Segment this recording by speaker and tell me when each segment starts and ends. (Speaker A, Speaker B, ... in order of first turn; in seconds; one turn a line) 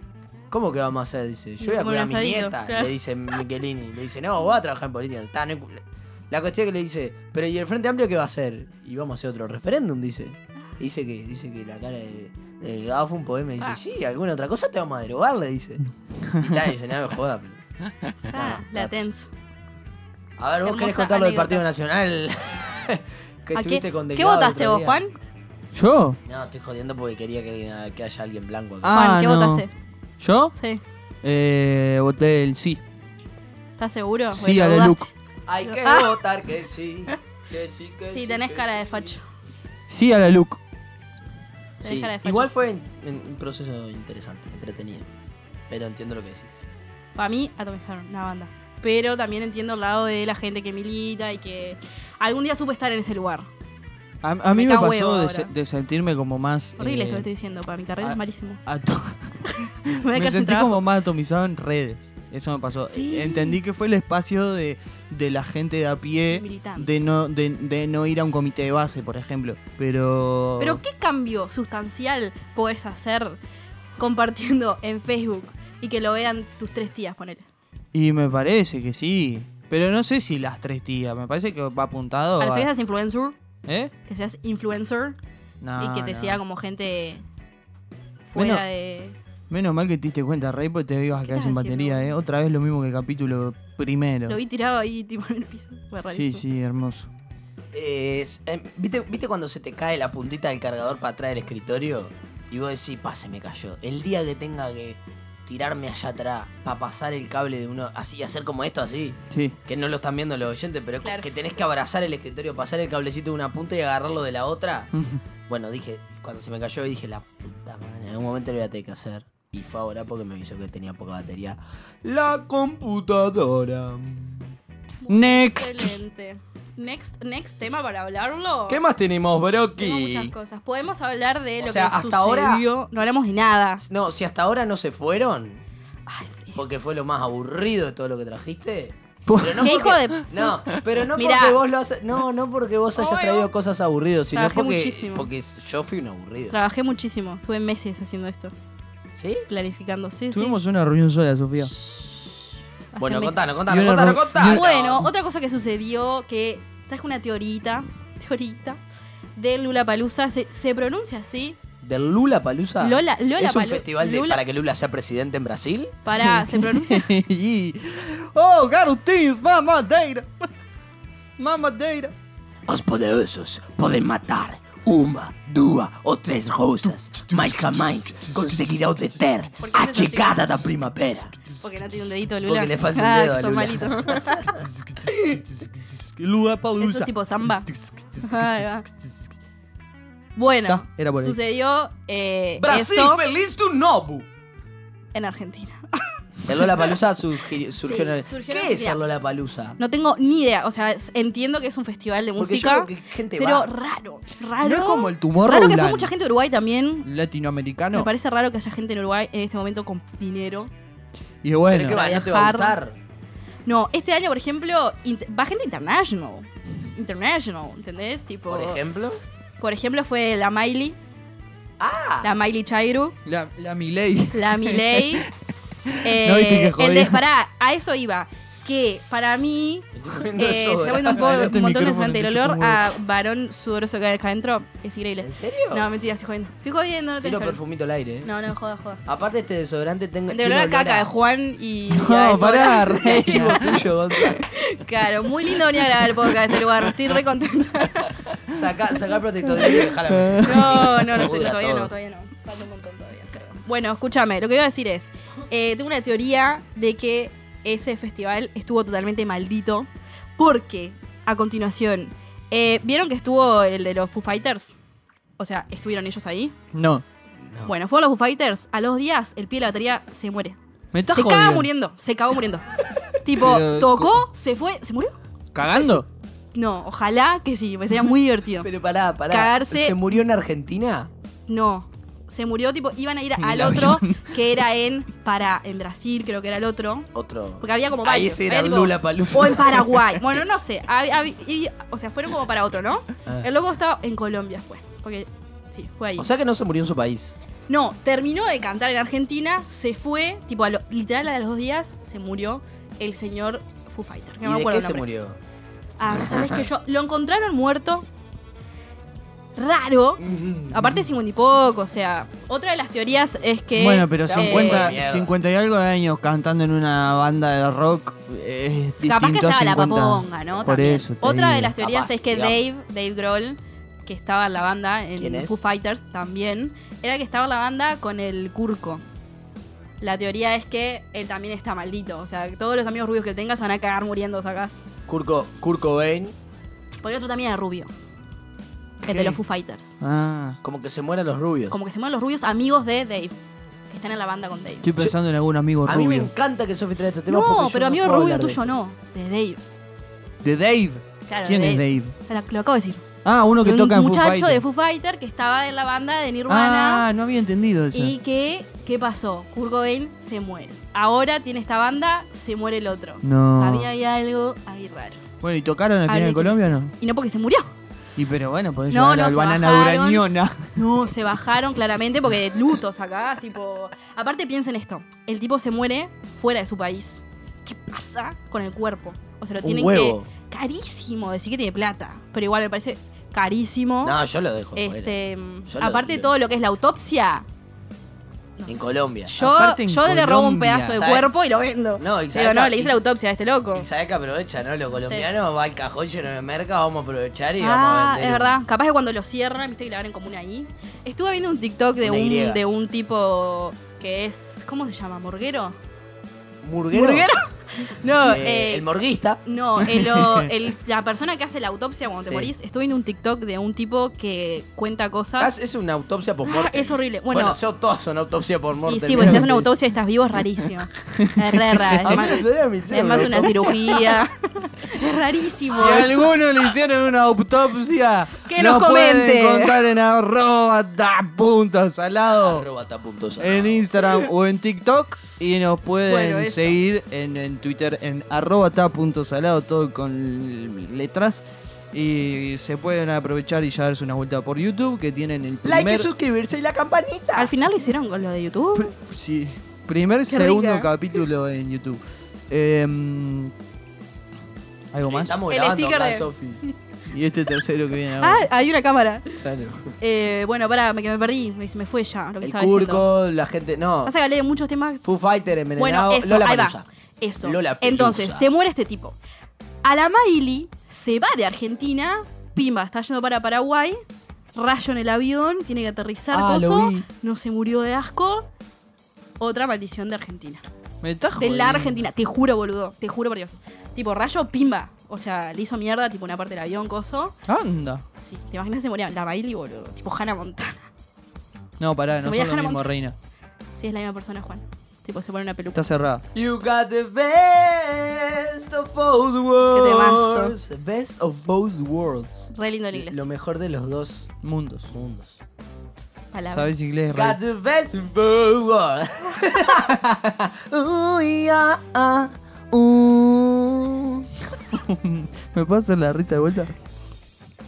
Speaker A: 0.5-15.8
Speaker B: 1.6-3.4
Speaker C: 16.3-16.6
Speaker A: 16.4-17.6
Speaker B: 18.3-19.3
Speaker A: 18.3-19.1
Speaker A: 20.4-25.0
Speaker B: 20.6-21.6
Speaker B: 23.5-25.1
Speaker C: 25.7-26.2
Speaker A: 26.2-29.0
Speaker C: 28.8-29.6
Speaker B: 28.9-29.7
Speaker C: 30.2-30.5
Speaker B: 30.5-30.8
Speaker C: 31.2-32.8
Speaker B: 33.8-35.1
Speaker C: 34.3-35.1
Speaker A: 35.5-39.2
Speaker B: 35.6-36.2
Speaker B: 38.1-39.2
Speaker C: 39.9-40.6
Speaker B: 41.8-42.5
Speaker A: 41.8-45.1
Speaker A: 45.7-46.6
Speaker B: 47.1-53.5
Speaker C: 54.2-57.3
Speaker B: 54.4-55.5
Speaker B: 56.8-58.6
Speaker C: 58.0-70.8
Speaker B: 59.5-60.8
Speaker B: 62.9-63.6
Speaker B: 66.3-67.0
Speaker B: 70.6-73.4
Speaker B: 74.0-77.5
Speaker C: 77.9-82.7
Speaker B: 82.4-83.4
Speaker C: 83.7-83.9
Speaker B: 84.1-85.2
Speaker C: 85.6-86.4
Speaker B: 85.8-87.2
Speaker B: 88.3-89.2
Speaker C: 88.3-88.6
Speaker C: 89.5-94.4
Speaker B: 91.2-92.2
Speaker B: 94.3-96.4
Speaker C: 96.1-97.1
Speaker A: 97.7-114.9
Speaker C: 109.3-109.6
Speaker B: 111.0-111.3
Speaker C: 114.9-115.2
Speaker A: 115.5-124.5
Speaker B: 125.0-128.8
Speaker C: 125.1-126.0
Speaker A: 128.7-130.3
Speaker B: 129.8-133.8
Speaker A: 131.6-132.6
Speaker A: 133.8-135.6
Speaker B: 136.1-136.6
Speaker A: 136.6-146.6
Speaker C: 139.3-140.2
Speaker B: 139.6-140.5
Speaker B: 141.2-141.6
Speaker B: 143.0-143.5
Speaker B: 144.3-145.3
Speaker B: 146.5-148.5
Speaker A: 149.2-149.5
Speaker B: 149.5-150.6
Speaker C: 150.3-151.7
Speaker B: 152.9-153.5
Speaker A: 153.0-155.1
Speaker C: 153.7-154.7
Speaker B: 154.4-158.8
Speaker B: 159.4-161.6
Speaker A: 161.8-165.9
Speaker B: 162.8-164.4
Speaker B: 166.1-167.1
Speaker C: 166.2-170.3
Speaker C: 171.4-172.1
Speaker A: 172.7-181.3
Speaker C: 177.1-177.6
Speaker C: 178.2-178.7
Speaker B: 179.6-180.6
Speaker B: 181.6-184.3
Speaker A: 182.4-184.5
Speaker C: 184.1-189.3
Speaker B: 186.8-187.7
Speaker B: 188.2-188.8
Speaker B: 190.4-193.2
Speaker C: 190.7-191.4
Speaker A: 192.6-194.3
Speaker B: 195.1-196.1
Speaker A: 196.5-199.8
Speaker B: 196.6-196.9
Speaker B: 197.8-199.0
Speaker B: 199.8-207.1
Speaker A: 202.4-203.7
Speaker C: 204.6-206.1
Speaker C: 207.1-208.1
Speaker B: 207.9-210.7
Speaker C: 211.4-212.0
Speaker A: 211.7-213.0
Speaker B: 211.8-212.8
Speaker B: 213.7-218.8
Speaker A: 218.5-219.2
Speaker B: 219.6-221.0
Speaker A: 221.8-222.3
Speaker B: 222.2-223.2
Speaker C: 223.3-225.3
Speaker B: 224.3-225.2
Speaker C: 225.9-227.2
Speaker B: 226.0-237.6
Speaker A: 229.9-231.2
Speaker C: 231.1-232.9
Speaker A: 235.2-235.9
Speaker A: 237.2-238.3
Speaker B: 238.2-239.0
Speaker A: 239.1-241.1
Speaker B: 240.3-248.2
Speaker C: 241.9-243.7
Speaker A: 243.0-244.5
Speaker A: 248.5-251.9
Speaker C: 250.1-251.0
Speaker B: 250.4-264.8
Speaker B: 265.4-266.5
Speaker C: 266.7-267.0
Speaker A: 267.4-267.7
Speaker B: 267.6-270.6
Speaker C: 270.9-271.7
Speaker B: 271.1-272.7
Speaker B: 273.2-275.2
Speaker C: 273.4-274.2
Speaker C: 275.6-276.1
Speaker B: 276.5-278.7
Speaker A: 278.6-281.1
Speaker B: 279.3-280.0
Speaker B: 281.5-287.1
Speaker C: 283.4-284.4
Speaker A: 287.1-290.0
Speaker B: 287.6-296.3
Speaker A: 296.2-297.4
Speaker B: 297.7-305.1
Speaker A: 304.4-305.4
Speaker B: 306.0-308.1
Speaker A: 306.1-306.7
Speaker B: 309.6-315.0
Speaker A: 310.2-311.0
Speaker C: 313.8-321.7
Speaker A: 314.2-315.4
Speaker B: 319.0-329.0
Speaker A: 321.8-322.6
Speaker A: 325.2-325.6
Speaker B: 330.0-334.8
Speaker A: 335.1-336.4
Speaker B: 337.0-337.9
Speaker B: 339.0-339.9
Speaker C: 339.1-339.4
Speaker C: 340.0-340.6
Speaker A: 340.6-341.8
Speaker B: 341.7-343.3
Speaker B: 343.9-344.9
Speaker C: 344.8-346.3
Speaker A: 345.9-348.7
Speaker B: 347.3-349.6
Speaker C: 350.4-352.1
Speaker B: 351.3-353.1
Speaker C: 353.2-354.6
Speaker B: 353.6-357.1
Speaker C: 356.5-358.2
Speaker B: 357.9-365.2
Speaker C: 363.2-363.9
Speaker C: 365.4-366.9
Speaker B: 366.1-367.7
Speaker C: 368.2-370.8
Speaker B: 368.9-370.2
Speaker B: 370.8-384.2
Speaker A: 379.6-380.3
Speaker A: 384.0-386.3
Speaker B: 384.8-387.5
Speaker B: 388.6-393.9
Speaker A: 388.7-389.3
Speaker C: 389.4-391.0
Speaker A: 390.9-391.3
Speaker A: 392.0-393.0
Speaker A: 393.7-398.6
Speaker B: 394.9-395.3
Speaker B: 397.6-405.8
Speaker A: 402.0-402.6
Speaker A: 406.6-407.3
Speaker B: 406.9-408.9
Speaker A: 408.2-409.4
Speaker B: 409.4-415.6
Speaker C: 410.0-410.5
Speaker A: 412.2-412.5
Speaker A: 415.4-419.7
Speaker B: 416.4-417.6
Speaker B: 418.9-426.3
Speaker C: 421.1-422.4
Speaker A: 422.0-424.2
Speaker C: 423.2-423.7
Speaker C: 425.7-432.6
Speaker A: 425.8-426.1
Speaker B: 428.4-429.8
Speaker A: 432.4-433.9
Speaker C: 433.4-446.1
Speaker B: 436.1-436.8
Speaker A: 445.6-447.5
Speaker B: 447.4-448.9
Speaker C: 448.8-453.5
Speaker B: 450.3-450.9
Speaker C: 454.9-455.3
Speaker A: 455.0-456.6
Speaker B: 455.5-456.7
Speaker C: 457.1-458.5
Speaker B: 458.2-459.4
Speaker A: 459.4-459.9
Speaker B: 460.0-463.1
Speaker A: 462.4-464.1
Speaker B: 464.1-465.0
Speaker A: 465.0-466.9
Speaker B: 465.8-469.2
Speaker A: 467.4-468.5
Speaker B: 469.8-474.0
Speaker B: 474.6-478.5
Speaker A: 476.3-477.1
Speaker B: 479.4-480.6
Speaker C: 481.0-482.0
Speaker B: 481.4-487.4
Speaker C: 487.5-488.0
Speaker B: 488.2-490.9
Speaker C: 491.8-493.1
Speaker B: 492.2-492.9
Speaker B: 493.8-495.8
Speaker C: 495.8-496.2
Speaker A: 496.3-504.3
Speaker B: 499.7-500.6
Speaker B: 502.5-503.2
Speaker C: 504.4-504.9
Speaker A: 504.9-505.4
Speaker B: 506.3-506.7
Speaker C: 506.5-507.4
Speaker A: 507.1-514.3
Speaker C: 514.7-516.7